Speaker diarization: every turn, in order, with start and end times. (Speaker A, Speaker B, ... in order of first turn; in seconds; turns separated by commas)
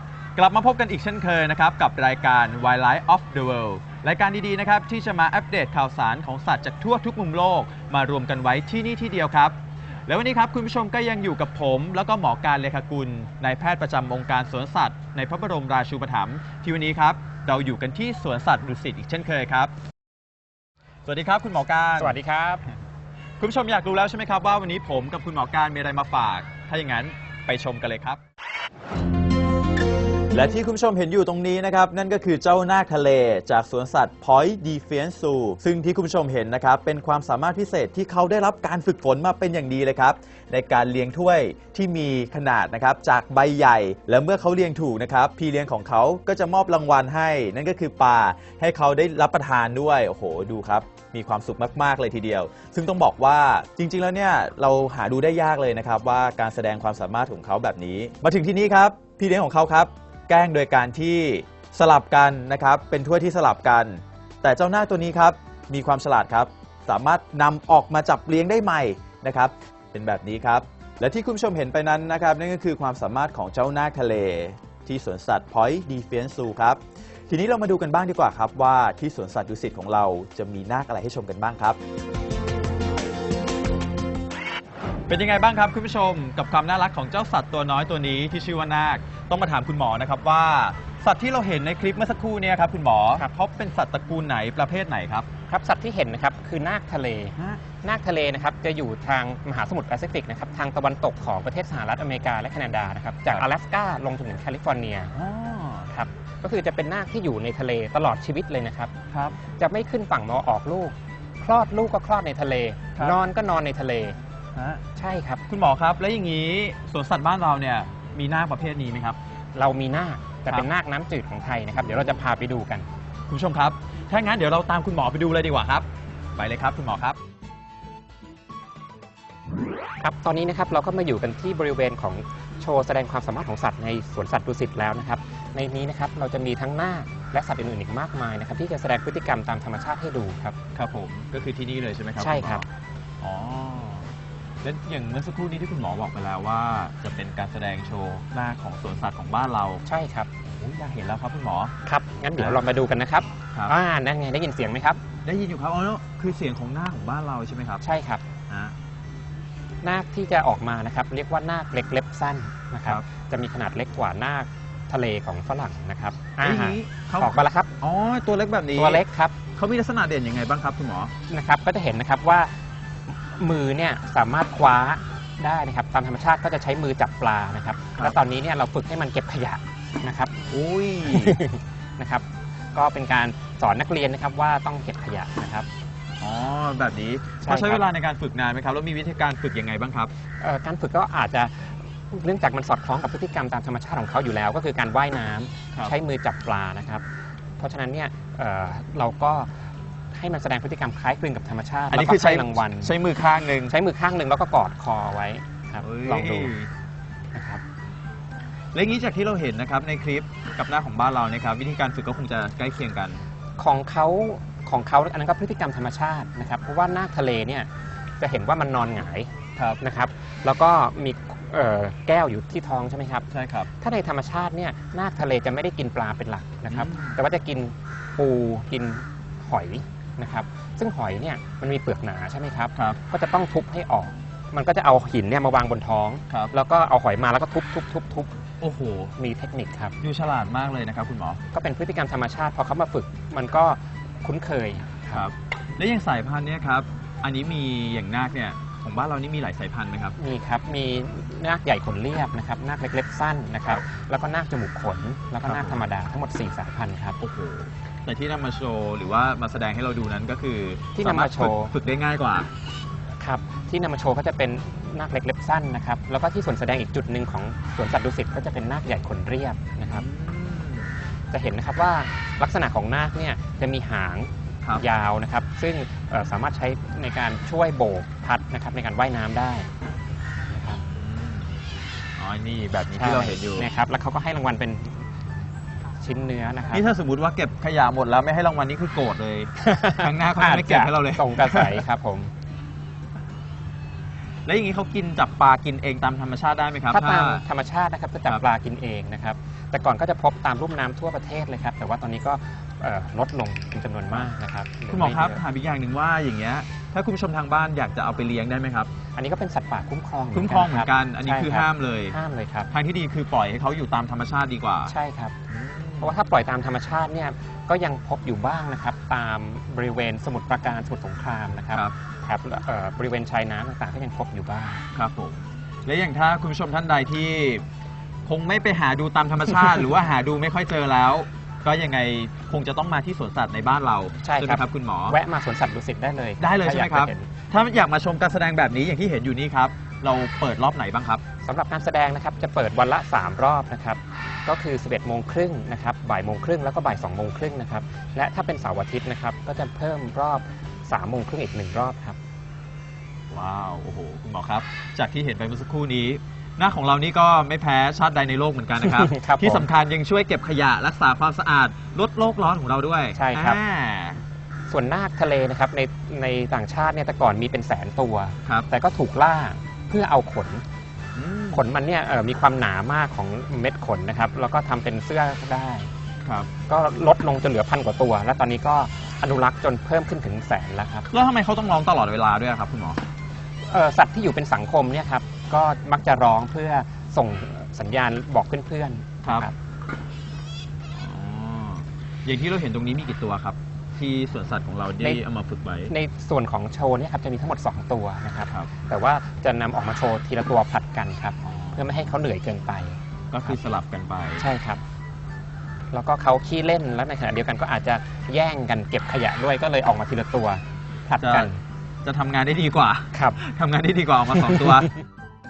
Speaker A: 0.3-19.7, Speaker A: 21.1-22.2, Speaker B: 22.0-22.6, Speaker A: 23.4-28.2, Speaker A: 30.3-81.8, Speaker A: 85.1-95.3, Speaker B: 95.5-105.1, Speaker A: 97.4-97.6, Speaker A: 105.1-105.9, Speaker B: 105.9-108.9, Speaker A: 109.1-109.4, Speaker B: 109.6-114.2, Speaker A: 114.5-114.8, Speaker B: 115.0-115.4, Speaker A: 115.5-119.2, Speaker B: 119.5-122.9, Speaker A: 123.3-127.2, Speaker B: 130.0-140.6, Speaker A: 140.7-142.6, Speaker B: 142.2-142.6, Speaker A: 143.2-144.1, Speaker A: 144.6-149.8, Speaker B: 149.8-150.3, Speaker A: 150.5-151.7, Speaker B: 151.8-155.0, Speaker A: 155.2-157.8, Speaker B: 157.8-158.2, Speaker A: 158.5-158.7, Speaker B: 159.8-167.7, Speaker A: 166.4-169.0, Speaker B: 168.7-169.3, Speaker A: 169.5-171.1, Speaker B: 171.3-172.5, Speaker B: 173.1-180.6, Speaker A: 180.5-181.4, Speaker B: 181.1-185.7, Speaker A: 186.2-190.1, Speaker B: 187.4-187.8, Speaker B: 190.4-197.0, Speaker B: 197.6-199.5, Speaker B: 200.1-202.9, Speaker A: 201.9-203.7, Speaker B: 203.7-206.5, Speaker A: 205.8-206.7, Speaker B: 207.3-207.6, Speaker A: 208.7-213.2, Speaker B: 213.6-217.7, Speaker B: 218.2-223.3, Speaker A: 223.3-223.7, Speaker B: 223.8-238.4, Speaker A: 226.7-227.2, Speaker A: 238.6-239.1, Speaker B: 239.2-240.0, Speaker A: 240.0-241.4, Speaker B: 241.5-245.3, Speaker A: 245.1-250.2, Speaker B: 250.2-257.2, Speaker A: 255.4-255.8, Speaker A: 257.2-262.5, Speaker B: 260.9-261.7, Speaker B: 263.2-270.1, Speaker A: 269.9-271.0, Speaker B: 271.3-279.7, Speaker B: 280.5-280.8, Speaker A: 280.9-281.5, Speaker A: 282.2-283.7, Speaker B: 283.0-285.1, Speaker B: 286.0-286.9, Speaker A: 286.7-291.8, Speaker B: 289.6-292.3, Speaker A: 294.4-297.4, Speaker B: 296.9-305.4, Speaker A: 304.9-308.9, Speaker B: 309.1-312.7, Speaker A: 310.3-312.1, Speaker A: 312.7-314.9, Speaker B: 314.9-315.3, Speaker A: 315.5-316.1, Speaker B: 316.0-324.8, Speaker A: 324.9-327.6, Speaker A: 328.2-335.2, Speaker B: 334.2-337.3, Speaker A: 336.4-341.2, Speaker B: 341.4-352.2, Speaker A: 353.3-364.2, Speaker B: 358.8-359.7, Speaker B: 363.1-363.6, Speaker B: 364.7-370.6, Speaker A: 371.1-371.6, Speaker B: 371.5-375.9, Speaker A: 376.2-376.5, Speaker B: 376.7-381.1, Speaker A: 381.1-383.0, Speaker B: 383.6-389.5, Speaker A: 390.9-395.9, Speaker B: 395.9-403.6, Speaker A: 401.5-402.1, Speaker A: 403.3-404.4, Speaker B: 404.4-404.8, Speaker B: 405.9-411.6, Speaker A: 411.2-411.5, Speaker A: 412.0-414.9, Speaker B: 413.1-413.4